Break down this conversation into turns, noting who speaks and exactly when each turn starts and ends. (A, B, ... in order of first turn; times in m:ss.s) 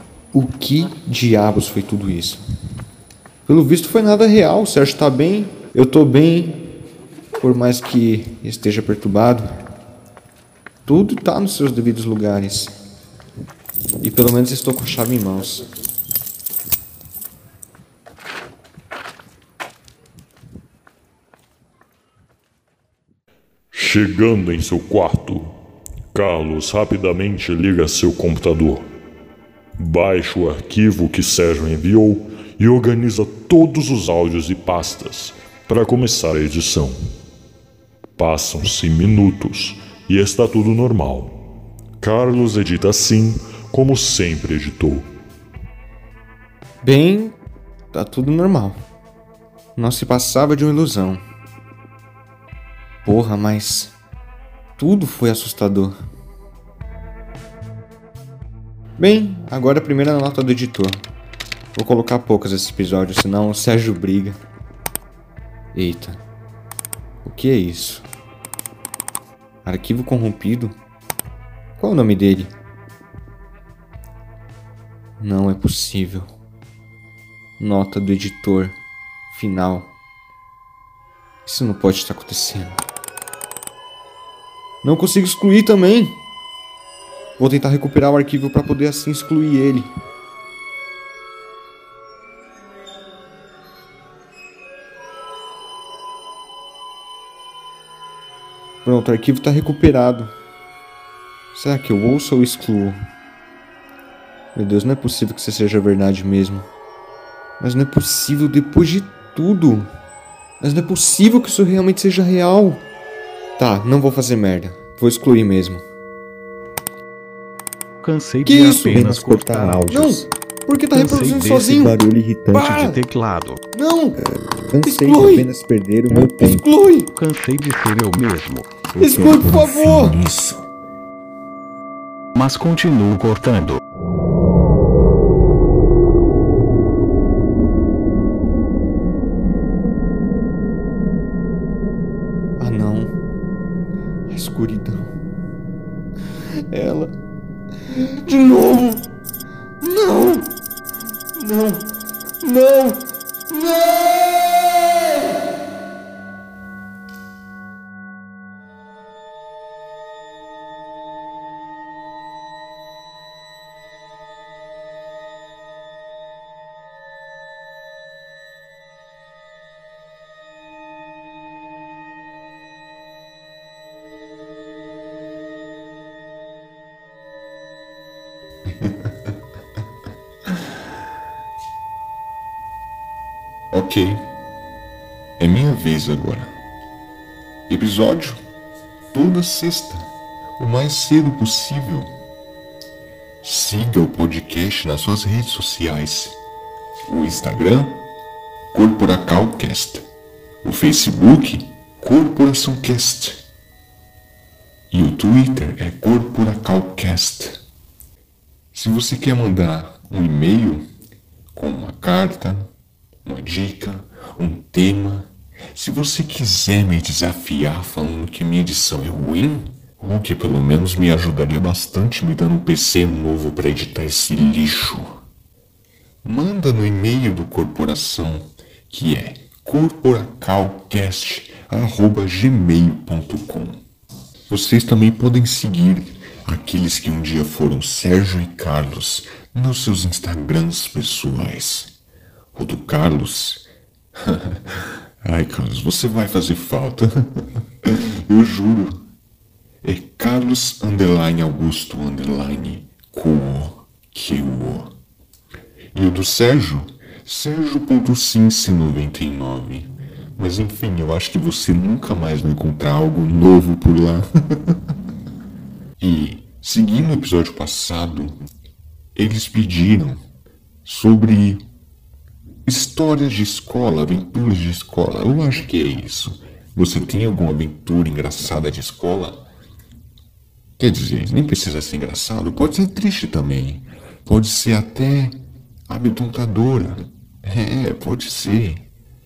0:00.3-0:02.4 A
0:03.5-0:06.7 A
0:07.4-0:09.6 A
0:10.8-0:12.8 A
0:14.0-0:15.6 A
0:23.7-0:25.5 B
0:26.1-0:28.9 B
0:29.8-0:37.0 B
0:38.2-0:41.4 B
0:42.0-0:45.1 B
0:46.8-0:47.4 A
0:47.9-0:48.8 A
0:49.8-0:51.2 A
0:53.0-0:54.0 A
0:54.8-0:56.0 A
0:59.0-1:01.0 A
1:01.7-1:04.4 A
1:05.7-1:06.2 A
1:07.2-1:08.0 A
1:09.6-1:10.8 A
1:11.8-1:12.5 A
1:15.2-1:16.3 A
1:17.6-1:18.8 A
1:19.3-1:19.9 A
1:21.4-1:22.8 A
1:24.8-1:26.2 A
1:27.4-1:29.9 A
1:38.8-1:40.3 A
1:41.5-1:43.0 A
1:44.5-1:46.7 A
1:47.6-1:49.9 A
1:50.6-1:52.8 A
1:53.6-1:55.8 A
1:58.0-2:00.2 C
1:58.4-2:03.0 A
2:00.9-2:02.0 C
2:02.5-2:03.6 C
2:03.7-2:07.1 A
2:07.1-2:08.7 C
2:08.9-2:10.7 D
2:09.0-2:10.2 A
2:12.3-2:13.8 C
2:22.6-2:23.1 A
2:24.3-2:25.1 A
2:26.7-2:27.2 A
2:27.8-2:29.1 A
2:29.8-2:30.5 A
2:31.3-2:35.3 A
2:58.6-2:59.3 D
3:03.7-3:04.2 D
3:05.4-3:06.5 D
3:07.7-3:08.4 D
3:09.1-3:12.1 D
3:13.4-3:16.4 D
3:17.1-3:18.0 D
3:18.7-3:20.1 D
3:20.6-3:23.4 D
3:24.9-3:27.6 D
3:28.7-3:30.8 D
3:31.5-3:32.7 D
3:33.2-3:45.2 D
3:46.2-3:53.8 D
3:54.5-4:01.9 D
4:02.5-4:09.1 D
4:09.8-4:14.9 D
4:15.9-4:24.8 D
4:26.0-4:28.4 D
4:29.1-4:30.2 D
4:30.8-4:31.6 D
4:32.6-4:39.4 D
4:40.8-4:45.4 D
4:45.9-4:48.8 D